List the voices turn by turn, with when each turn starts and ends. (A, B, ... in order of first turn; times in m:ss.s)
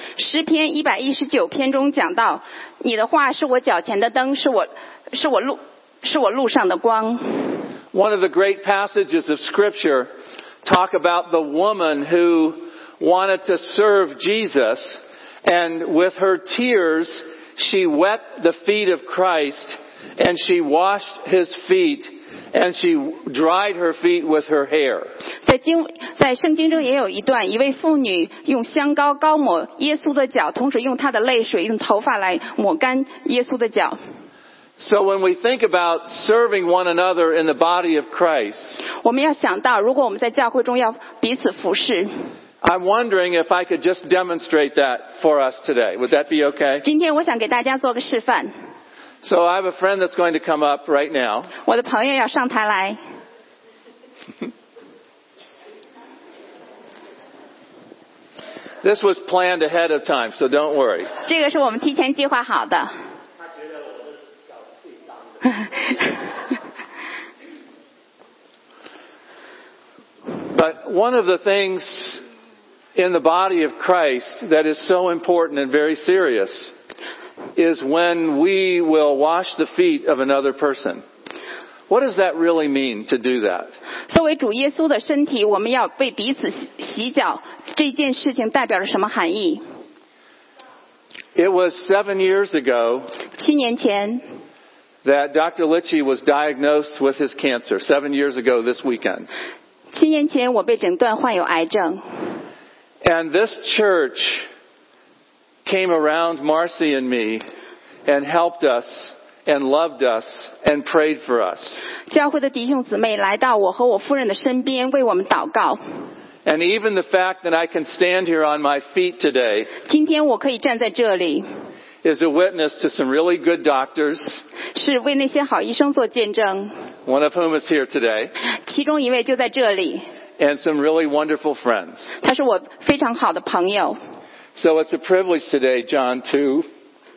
0:00.2-0:07.6 A
0:07.9-0:10.1 B
0:10.6-0:25.1 B
0:25.4-0:34.0 A
0:34.8-0:38.8 B
0:38.9-0:42.1 A
0:42.6-0:46.8 B
0:46.8-0:48.5 A
0:49.2-0:51.5 B
0:51.6-0:53.0 A
0:58.8-1:01.1 B
1:01.2-1:02.9 A
1:10.5-1:12.2 B
1:12.9-1:16.7 B
1:17.6-1:21.0 B
1:21.9-1:23.7 B
1:24.1-1:29.6 A
1:31.4-1:33.1 B
1:33.4-1:34.2 A
1:35.0-1:39.3 B
1:39.9-1:42.0 A
1:43.0-1:44.4 B
1:45.6-1:47.4 B
1:48.0-1:51.8 B
1:52.1-1:55.8 A
1:56.4-1:59.7 B
1:59.8-2:01.4 A
2:02.0-2:04.4 B
2:04.7-2:06.7 A
2:07.0-2:08.3 B
2:08.5-2:10.0 A
2:10.4-2:12.1 B
2:12.2-2:14.0 A
2:14.5-2:16.6 B